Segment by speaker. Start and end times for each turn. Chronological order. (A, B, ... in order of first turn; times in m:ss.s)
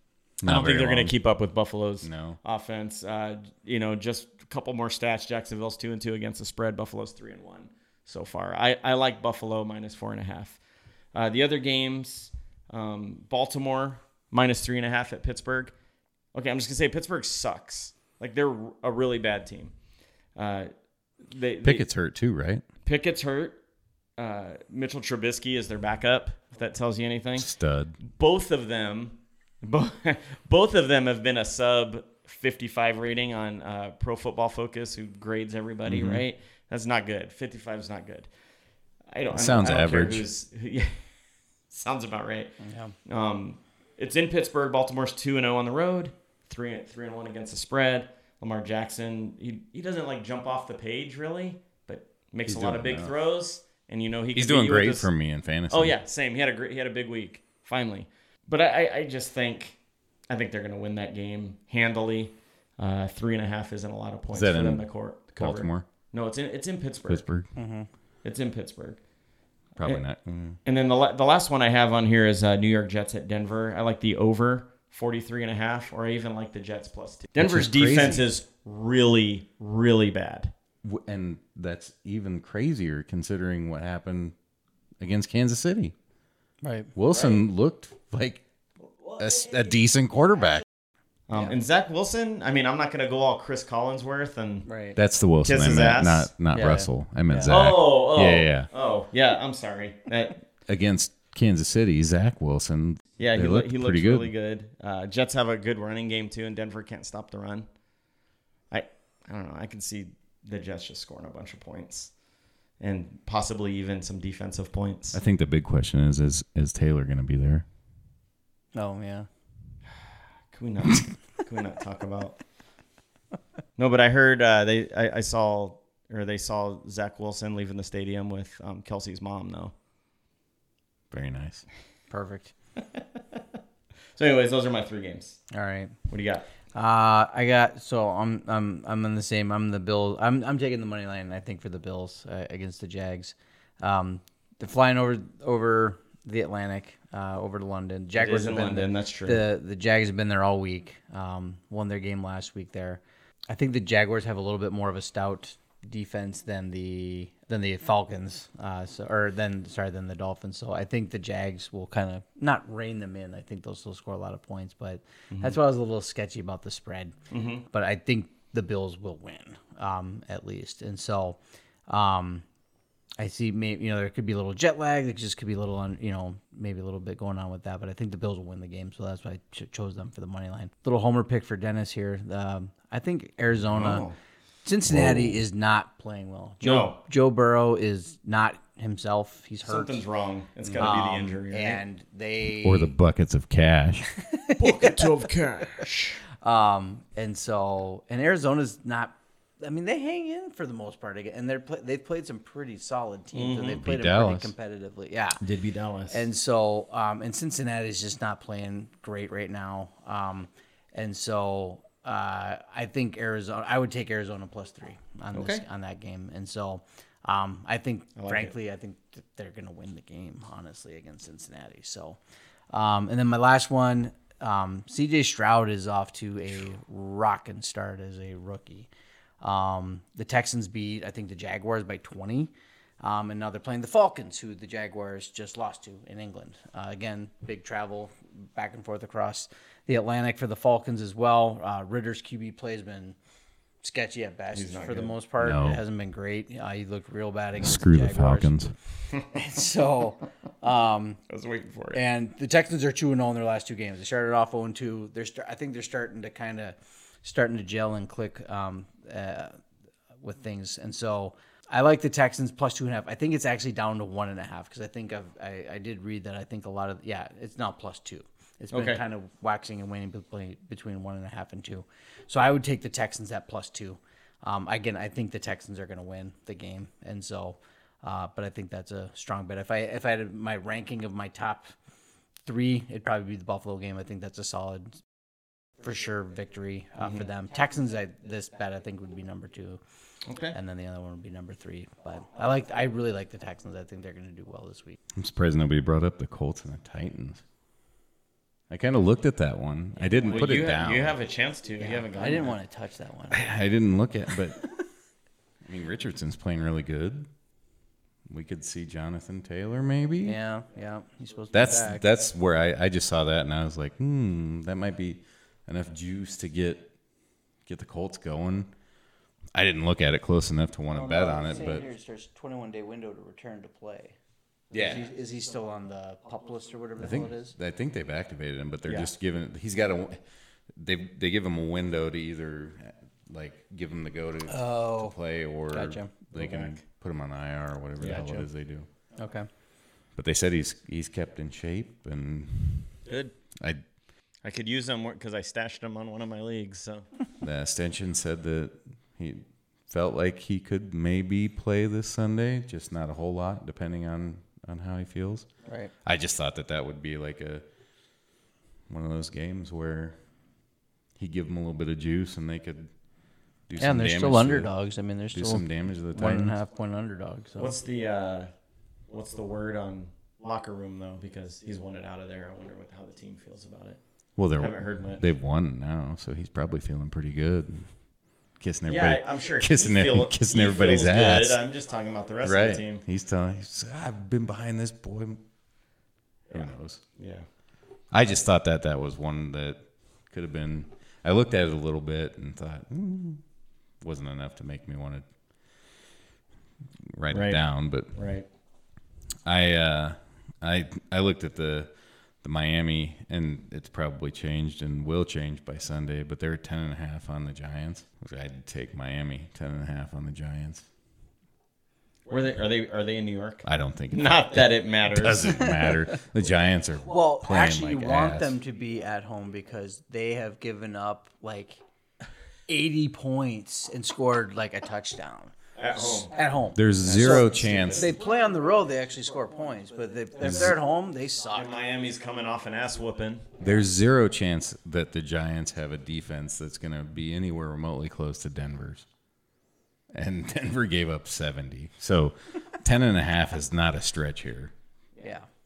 0:00.4-0:01.1 A
0:00.4-0:10.6 B
0:02.0-0:02.4 A
0:11.1-0:15.7 B
0:16.3-0:19.7 B
0:20.3-0:21.8 B
0:21.6-0:22.6 A
0:22.8-0:23.6 B
0:24.2-0:27.5 B
0:27.4-0:28.0 A
0:28.0-0:38.3 B
0:35.8-0:36.2 A
0:39.1-0:41.1 B
0:39.3-0:40.2 A
0:41.7-0:55.1 B
0:42.6-0:42.9 C
0:52.4-0:53.1 A
0:54.3-0:56.0 A
0:55.7-1:07.2 B
1:04.3-1:05.8 A
1:07.1-1:07.5 A
1:07.5-1:07.9 C
1:08.2-1:09.0 B
1:09.8-1:10.6 A
1:10.6-1:20.5 B
1:17.4-1:18.3 A
1:20.8-1:24.3 A
1:25.0-1:25.9 A
1:26.6-1:26.9 C
1:26.9-1:28.4 A
1:27.1-1:27.4 B
1:29.2-1:30.6 A
1:31.3-1:34.7 B
1:34.6-1:35.0 C
1:35.0-1:38.7 A
1:35.4-1:36.3 B
1:36.5-1:37.6 C
1:37.4-1:40.4 B
1:40.7-1:44.3 A
1:43.2-1:47.7 B
1:48.7-1:52.2 B
1:52.8-1:55.2 B
1:55.1-1:57.6 A
1:58.7-1:59.3 C
2:00.5-2:02.4 B
2:03.8-2:09.7 B
2:11.1-2:11.6 A
2:12.1-2:12.5 C
2:14.2-2:15.4 B
2:15.5-2:15.9 C
2:16.1-2:16.5 B
2:16.7-2:47.1 C
2:28.2-2:29.4 B
2:45.3-2:45.6 B
2:47.3-2:47.6 B
2:47.7-2:52.4 C
2:53.2-3:04.0 C
3:03.7-3:04.1 B
3:04.6-3:10.0 C
3:04.9-3:05.4 A
3:06.6-3:07.0 B
3:09.6-3:11.8 B
3:10.8-3:12.9 C
3:12.6-3:14.1 A
3:14.2-3:15.1 C
3:14.6-3:16.2 B
3:16.4-3:25.4 C
3:23.3-3:23.8 B
3:23.8-3:24.5 A
3:25.4-3:26.2 B
3:26.1-3:42.2 C
3:35.3-3:35.6 B
3:38.2-3:38.5 B
3:42.7-3:48.9 C
3:49.4-4:03.2 C
4:03.8-4:08.5 C
4:04.5-4:05.1 B
4:05.4-4:05.8 A
4:07.6-4:08.7 A
4:09.3-4:11.2 C
4:11.3-4:12.0 B
4:11.9-4:19.6 C
4:20.2-4:41.7 C
4:28.7-4:29.0 B
4:42.4-4:45.0 C
4:45.8-4:49.8 C
4:50.3-4:50.6 B
4:50.5-4:55.0 C
4:55.2-4:57.4 A
4:58.7-5:01.2 A
5:00.2-5:02.6 B
5:01.8-5:03.4 C
5:03.3-5:04.7 A
5:05.6-5:07.3 A
5:08.3-5:10.4 A
5:10.2-5:12.0 C
5:11.5-5:16.9 A
5:17.6-5:18.7 A
5:19.5-5:21.8 A
5:20.9-5:24.2 C
5:24.7-5:25.0 A
5:24.7-5:27.5 C
5:27.0-5:30.2 A
5:30.7-5:38.9 A
5:34.5-5:35.2 C
5:35.7-5:36.1 C
5:36.3-5:36.8 B
5:38.0-5:38.3 B
5:38.1-5:38.4 C
5:39.2-5:39.5 C
5:40.1-5:43.0 A
5:43.0-5:43.3 B
5:43.6-5:43.8 A
5:44.4-5:47.1 B
5:47.4-5:55.5 A
5:55.6-5:55.9 C
5:56.0-5:57.6 A
5:58.9-6:00.2 A
6:01.2-6:02.9 A
6:03.7-6:04.7 A
6:03.8-6:07.7 C
6:05.3-6:06.6 A
6:07.6-6:08.5 B
6:09.1-6:15.2 B
6:14.4-6:17.9 A
6:18.6-6:21.6 A
6:18.8-6:23.0 B
6:22.4-6:25.4 A
6:26.5-6:27.4 B
6:26.5-6:27.0 A
6:28.1-6:33.4 A
6:34.0-6:35.3 A
6:37.1-6:38.1 A
6:37.3-6:38.4 B
6:39.4-6:50.8 A
6:52.3-6:55.6 B
6:53.6-6:58.5 A
6:57.1-7:01.8 C
7:02.7-7:11.7 C
7:05.8-7:06.4 B
7:06.7-7:08.1 A
7:07.0-7:08.1 B
7:10.4-7:10.8 A
7:11.5-7:13.6 B
7:13.6-7:19.1 A
7:20.1-7:24.7 A
7:25.2-7:25.5 C